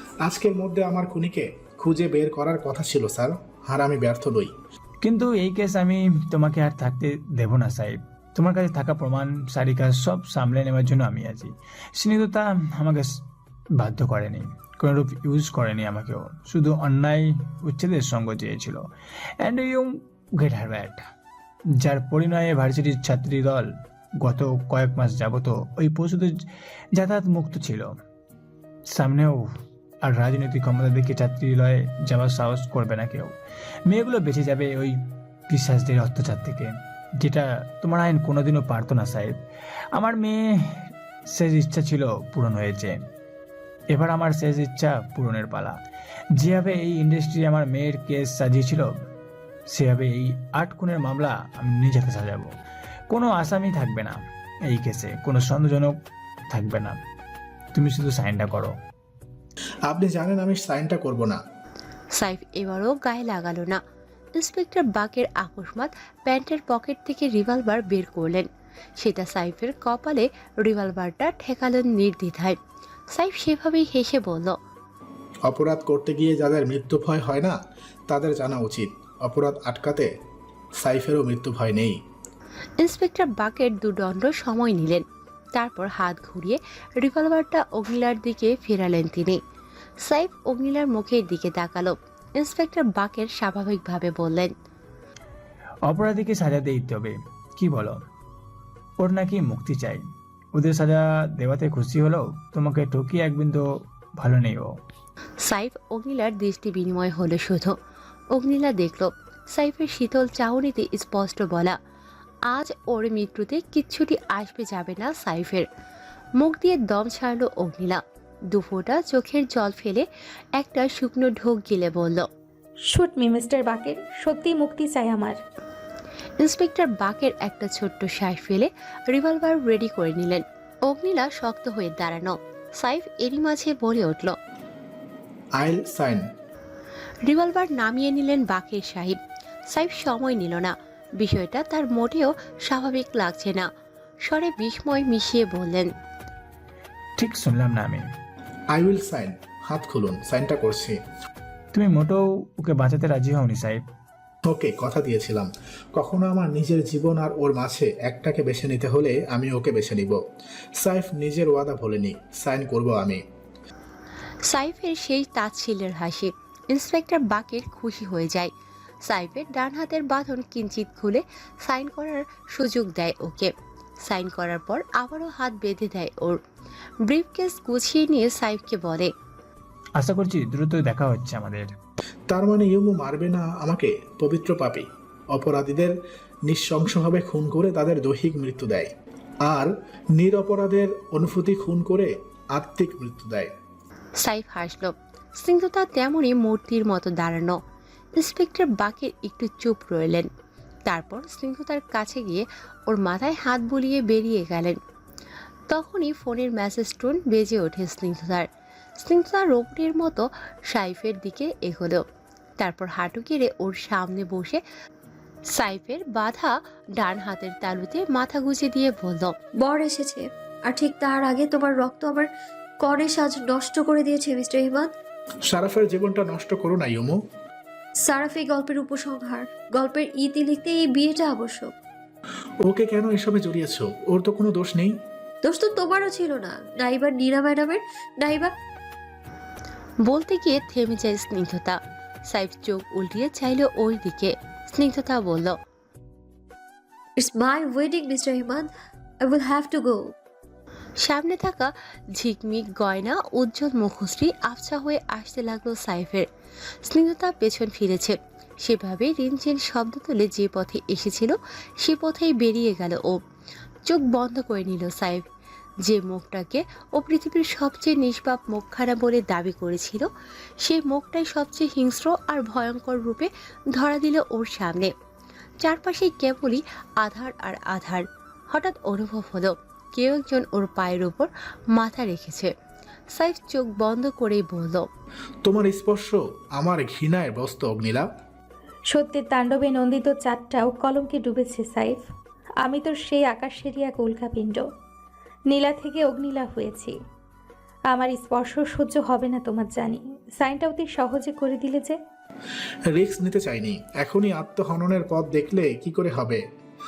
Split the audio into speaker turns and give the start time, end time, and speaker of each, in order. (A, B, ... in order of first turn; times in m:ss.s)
0:00.2-0:04.5 A
0:05.0-0:13.1 B
0:13.8-0:18.8 B
0:19.4-0:21.1 B
0:21.8-0:26.3 B
0:27.0-0:27.9 B
0:28.9-0:29.4 B
0:30.0-0:33.4 B
0:33.9-0:35.0 B
0:35.5-0:39.4 B
0:40.0-0:43.0 B
0:43.9-0:45.8 B
0:46.4-0:48.9 B
0:49.7-0:52.5 B
0:53.1-0:55.9 B
0:56.5-0:57.0 B
0:57.7-0:58.7 B
0:59.9-1:01.4 A
1:02.2-1:03.8 C
1:04.4-1:08.5 C
1:09.0-1:12.6 C
1:13.1-1:14.5 C
1:15.5-1:17.6 A
1:18.1-1:20.1 A
1:20.8-1:22.0 A
1:22.8-1:25.0 C
1:25.6-1:29.4 C
1:30.0-1:34.5 C
1:35.9-1:38.0 B
1:39.0-1:40.0 B
1:40.6-1:43.6 B
1:44.2-1:44.7 B
1:45.4-1:47.8 C
1:48.3-1:51.8 C
1:52.5-1:55.6 C
1:56.4-1:58.0 C
1:58.5-2:00.0 C
2:00.6-2:02.2 C
2:02.9-2:05.4 D
2:06.4-2:14.4 C
2:15.6-2:16.2 A
2:17.3-2:19.2 C
2:19.7-2:23.7 C
2:24.2-2:25.9 C
2:27.2-2:28.0 B
2:28.7-2:31.0 A
2:31.7-2:33.8 B
2:34.5-2:40.2 A
2:40.8-2:43.2 A
2:44.5-2:48.5 C
2:49.1-2:53.5 C
2:54.0-2:56.4 C
2:57.0-2:59.1 C
3:00.0-3:01.7 B
3:02.3-3:05.9 A
3:06.5-3:08.9 A
3:09.4-3:13.5 A
3:14.2-3:17.6 C
3:18.2-3:20.3 C
3:20.9-3:24.8 C
3:25.7-3:28.4 C
3:29.0-3:32.0 C
3:32.6-3:34.6 C
3:35.5-3:39.3 C
3:39.6-3:42.3 E
3:42.8-3:44.9 E
3:45.5-3:47.2 A
3:48.0-3:51.7 E
3:52.6-3:54.9 A
3:55.4-3:58.5 E
4:00.0-4:05.6 C
4:07.2-4:08.7 E
4:09.2-4:10.0 E
4:11.0-4:16.3 C
4:16.9-4:23.2 C
4:23.9-4:25.2 C
4:25.9-4:30.1 C
4:30.6-4:34.9 C
4:35.6-4:42.5 C
4:43.1-4:44.9 C
4:45.4-4:48.0 A
4:48.9-4:52.0 D
4:52.6-4:54.6 D
4:55.5-4:56.9 D
4:57.9-5:02.0 D
5:02.9-5:06.4 A